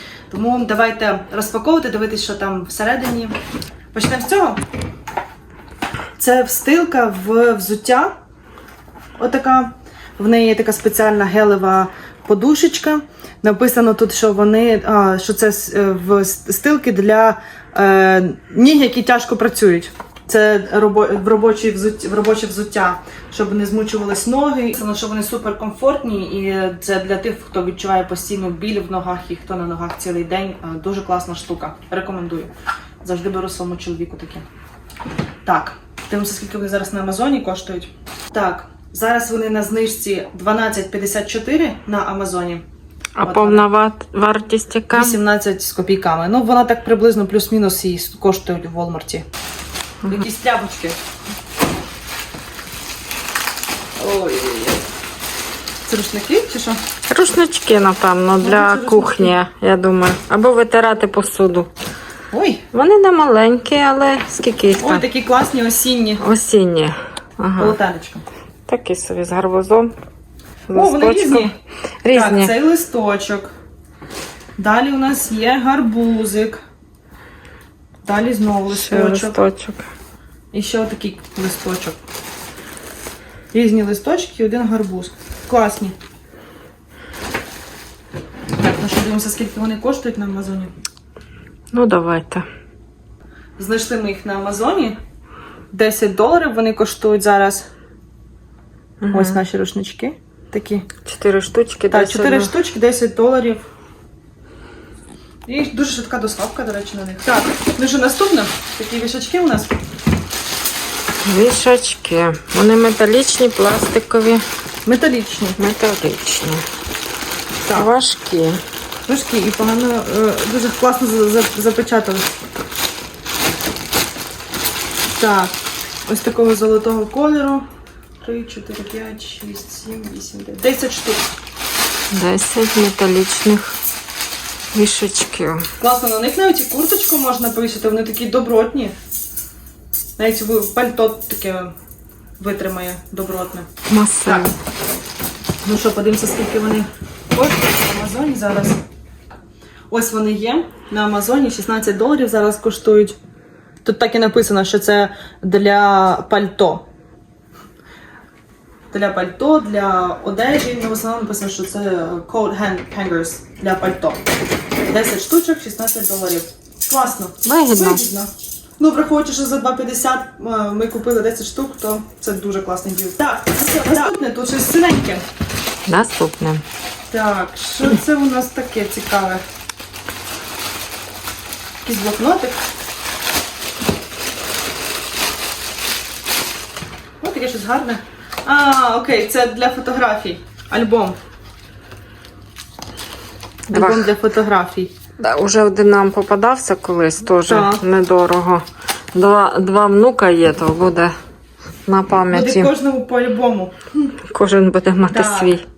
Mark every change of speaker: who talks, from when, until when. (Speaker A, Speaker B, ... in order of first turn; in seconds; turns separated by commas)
Speaker A: 0.3-3.4, Speaker A: 3.9-4.6, Speaker A: 6.2-8.1, Speaker A: 9.2-32.5, Speaker A: 33.0-34.5, Speaker A: 35.5-42.6, Speaker B: 43.2-45.2, Speaker A: 43.2-43.7, Speaker A: 44.9-49.2, Speaker A: 50.1-51.0, Speaker A: 54.0-54.8, Speaker A: 55.9-56.8, Speaker B: 57.1-61.7, Speaker A: 58.4-59.4, Speaker A: 62.3-62.6, Speaker B: 62.7-65.0, Speaker A: 64.8-66.2, Speaker B: 66.2-67.8, Speaker A: 67.6-68.3, Speaker B: 68.7-69.9, Speaker A: 70.7-71.5, Speaker B: 70.7-72.5, Speaker A: 72.1-73.5, Speaker A: 74.6-76.6, Speaker A: 78.0-79.4, Speaker B: 78.7-79.8, Speaker A: 80.5-82.0, Speaker A: 83.5-86.0, Speaker A: 88.6-90.7, Speaker B: 91.7-92.5, Speaker A: 93.6-95.0, Speaker A: 95.7-97.7, Speaker B: 99.0-99.4, Speaker A: 99.1-100.9, Speaker B: 101.0-102.5, Speaker A: 101.9-103.6, Speaker A: 105.5-109.7, Speaker B: 111.2-114.4, Speaker A: 114.9-115.6, Speaker B: 115.6-116.6, Speaker B: 117.7-118.6, Speaker A: 119.1-122.3, Speaker A: 125.1-125.5, Speaker A: 126.1-127.7, Speaker A: 128.2-131.2, Speaker B: 132.1-133.8, Speaker B: 134.7-135.7, Speaker A: 135.8-138.9, Speaker A: 140.2-141.7, Speaker A: 142.4-143.7, Speaker B: 143.9-144.6, Speaker A: 144.2-144.6, Speaker A: 145.6-148.8, Speaker A: 149.9-153.2, Speaker A: 153.8-156.8, Speaker A: 158.9-164.2, Speaker A: 164.9-175.2, Speaker B: 167.4-168.0, Speaker B: 175.9-176.6, Speaker A: 177.1-179.4, Speaker A: 181.8-182.6, Speaker A: 187.2-191.2, Speaker B: 193.7-194.1, Speaker A: 193.7-194.9, Speaker B: 195.2-201.1, Speaker A: 197.5-197.8, Speaker B: 201.9-202.7, Speaker A: 202.3-204.1, Speaker B: 204.3-205.6, Speaker A: 205.1-205.6